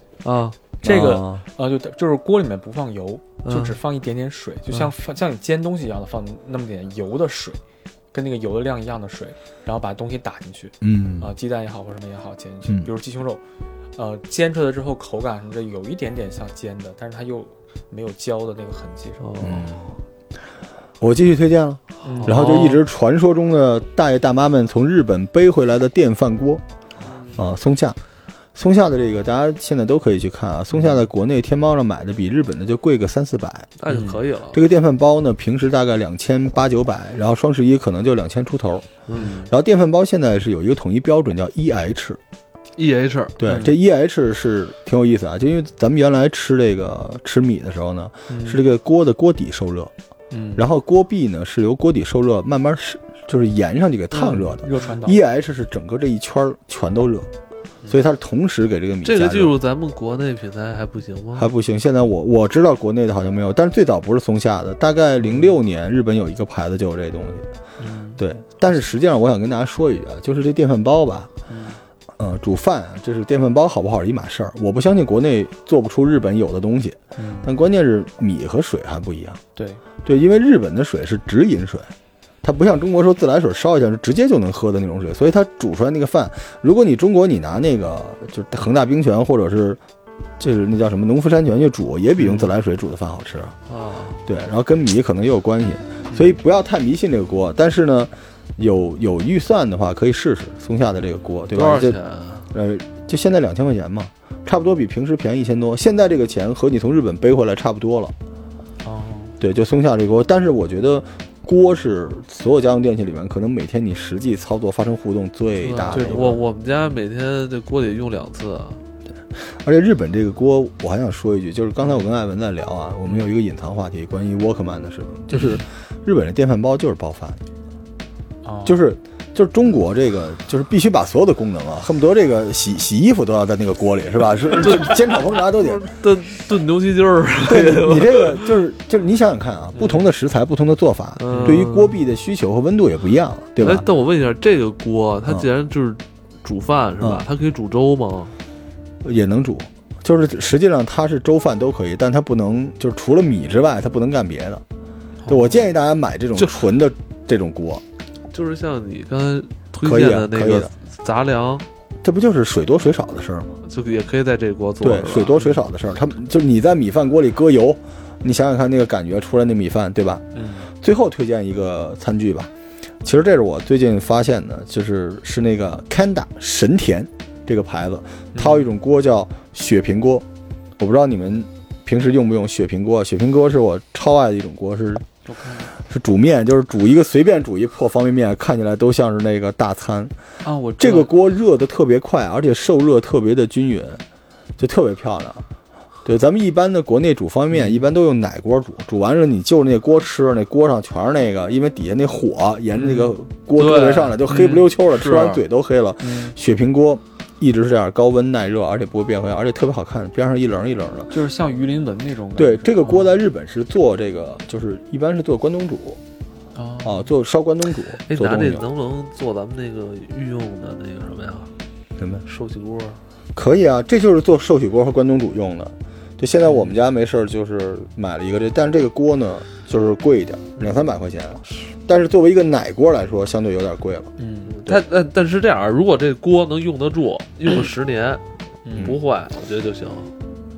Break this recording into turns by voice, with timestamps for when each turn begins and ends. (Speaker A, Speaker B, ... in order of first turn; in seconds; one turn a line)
Speaker A: 0.2-0.6
Speaker B: 0.8-1.5
Speaker C: 0.8-7.6
Speaker A: 3.4-3.8
Speaker C: 8.1-13.4
Speaker B: 10.8-11.3
Speaker C: 14.0-19.5
Speaker A: 19.2-19.7
Speaker B: 19.4-19.9
Speaker B: 21.0-26.6
Speaker C: 22.1-22.7
Speaker A: 22.1-22.8
Speaker C: 27.1-27.4
Speaker B: 27.4-28.0
Speaker B: 28.6-33.7
Speaker C: 30.7-31.0
Speaker A: 33.8-34.6
Speaker C: 33.9-34.2
Speaker B: 34.5-38.9
Speaker A: 39.1-39.3
Speaker C: 39.2-39.5
Speaker B: 39.5-42.2
Speaker A: 42.8-43.4
Speaker B: 43.4-49.9
Speaker C: 43.5-43.8
Speaker C: 48.3-48.6
Speaker C: 50.3-50.7
Speaker B: 50.6-57.3
Speaker C: 54.1-55.2
Speaker B: 57.9-59.6
Speaker A: 59.0-61.5
Speaker B: 61.4-67.5
Speaker C: 65.2-65.6
Speaker C: 67.8-68.2
Speaker B: 68.2-71.3
Speaker C: 71.5-71.8
Speaker B: 72.2-79.4
Speaker C: 77.2-77.5
Speaker C: 79.6-79.8
Speaker B: 80.0-81.9
Speaker B: 82.4-89.8
Speaker B: 90.4-93.5
Speaker A: 93.7-94.2
Speaker B: 94.3-102.0
Speaker C: 96.1-96.4
Speaker A: 101.5-102.5
Speaker B: 102.5-108.1
Speaker C: 108.8-109.3
Speaker B: 109.4-116.4
Speaker A: 115.6-118.8
Speaker C: 115.9-116.4
Speaker B: 119.6-127.4
Speaker C: 128.4-128.8
Speaker B: 128.7-135.9
Speaker A: 134.5-138.5
Speaker B: 137.4-143.9
Speaker A: 141.2-142.0
Speaker C: 141.3-141.7
Speaker A: 143.6-148.3
Speaker B: 147.0-147.3
Speaker B: 149.0-154.6
Speaker C: 155.2-155.6
Speaker B: 155.3-157.8
Speaker A: 158.3-161.7
Speaker B: 159.8-160.7
Speaker B: 162.0-163.6
Speaker A: 163.7-165.4
Speaker B: 164.8-172.5
Speaker C: 170.3-170.7
Speaker B: 173.0-180.3
Speaker C: 178.3-178.8
Speaker B: 180.8-185.1
Speaker C: 185.3-185.7
Speaker B: 185.8-190.1
Speaker C: 190.4-191.1
Speaker B: 190.8-194.0
Speaker B: 194.6-195.4
Speaker B: 196.1-211.1
Speaker C: 197.5-197.9
Speaker C: 202.8-203.1
Speaker A: 203.6-205.4
Speaker C: 204.3-204.6
Speaker C: 206.0-206.3
Speaker C: 211.1-213.2
Speaker B: 212.4-216.0
Speaker C: 216.5-217.1
Speaker B: 216.8-218.7
Speaker A: 218.1-221.5
Speaker B: 222.0-222.2
Speaker A: 222.3-223.0
Speaker B: 223.3-234.1
Speaker C: 226.4-226.7
Speaker C: 234.2-234.6
Speaker A: 234.5-238.2
Speaker C: 238.7-239.0
Speaker A: 238.8-240.1